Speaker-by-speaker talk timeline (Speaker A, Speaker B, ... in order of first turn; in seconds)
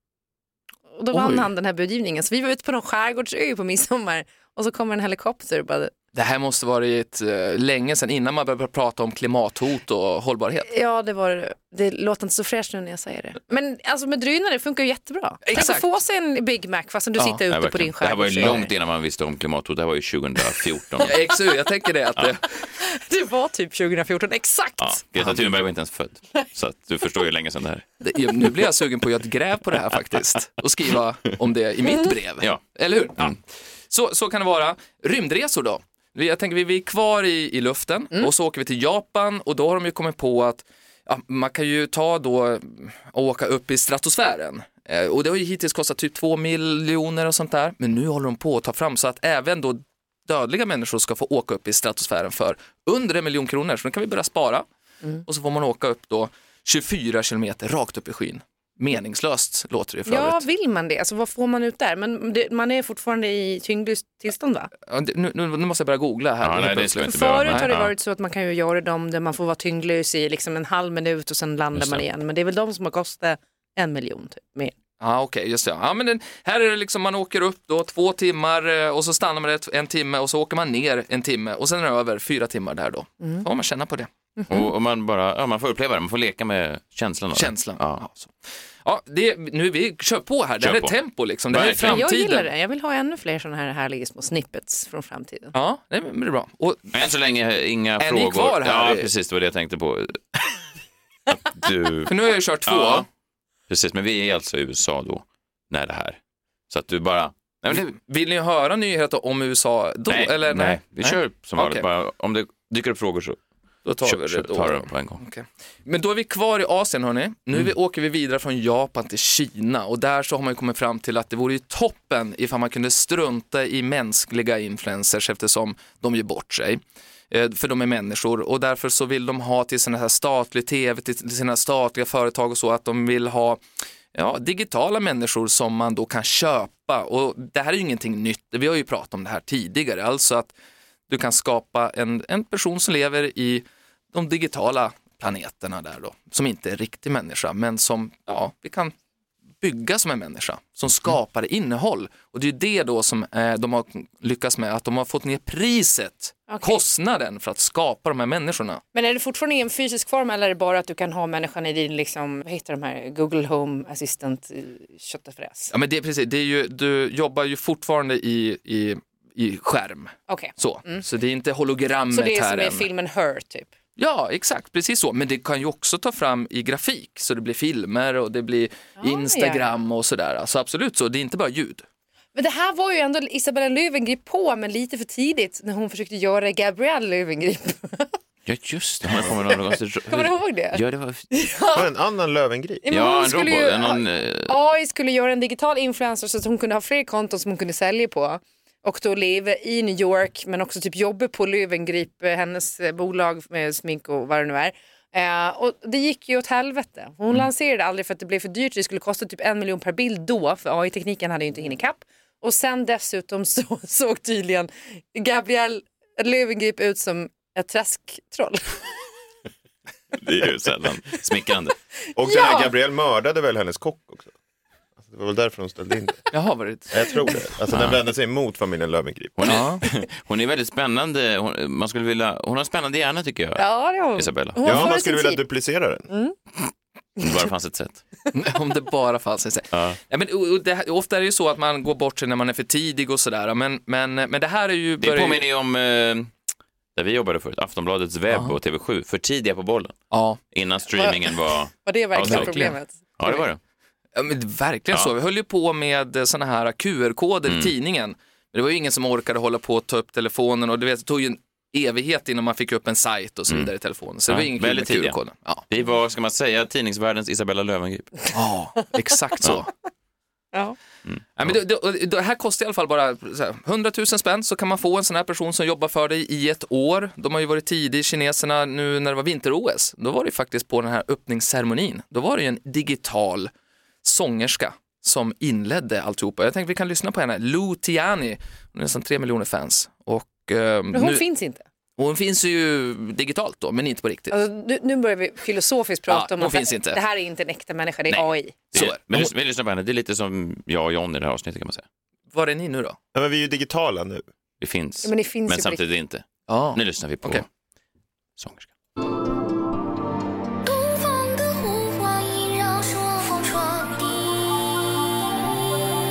Speaker A: 0.9-5.9, 10.7-18.7, 22.6-25.0, 60.1-64.7, 67.0-74.7, 91.7-95.5, 156.5-156.8, 158.9-165.7, 170.3-171.0, 172.1-173.7, 179.0-179.6, 182.3-188.2, 190.1-191.9, 192.8-218.9, 222.3-222.7, 233.6-235.4, 236.1-236.4, 250.9-253.5, 290.9-291.6, 294.3-298.5, 305.0-305.8
Speaker B: 1.1-1.5, 6.1-10.7, 15.5-15.8, 21.0-22.5, 28.0-54.7, 55.3-60.5, 64.9-67.7, 75.0-84.1, 87.3-88.3, 88.8-92.5, 95.5-96.9, 98.0-99.1, 102.1-103.1, 107.7-111.9, 113.8-133.6, 134.2-140.5, 141.1-148.9, 149.6-158.8, 165.7-172.9, 174.0-181.8, 226.3-226.9, 229.4-229.8, 238.3-245.4, 248.3-248.6, 250.1-250.4, 252.2-252.8, 254.2-265.7, 268.3-269.7, 271.4-283.5, 284.0-291.2, 292.0-294.4, 296.1-297.0, 298.1-299.3, 302.3-303.0, 306.5-307.4
Speaker C: 17.5-21.2, 24.8-27.9, 66.4-67.9, 71.8-72.0, 84.5-88.0, 90.6-91.0, 91.5-92.0, 96.9-100.2, 101.3-103.1, 103.7-106.2, 106.7-107.9, 110.1-113.4, 114.0-115.2, 188.5-191.2, 192.9-194.5, 220.2-221.8, 227.7-228.0, 229.4-234.9, 237.2-238.0, 239.7-240.0, 245.0-246.3, 246.9-249.9, 250.5-253.6, 257.5-257.7, 264.3-268.3, 271.1-271.6, 298.7-301.8, 304.6-307.5, 308.4-308.7
Speaker D: 191.7-192.9, 222.2-224.3, 225.0-226.3, 226.9-229.6, 234.7-236.1, 303.1-304.3
Speaker E: 310.7-314.7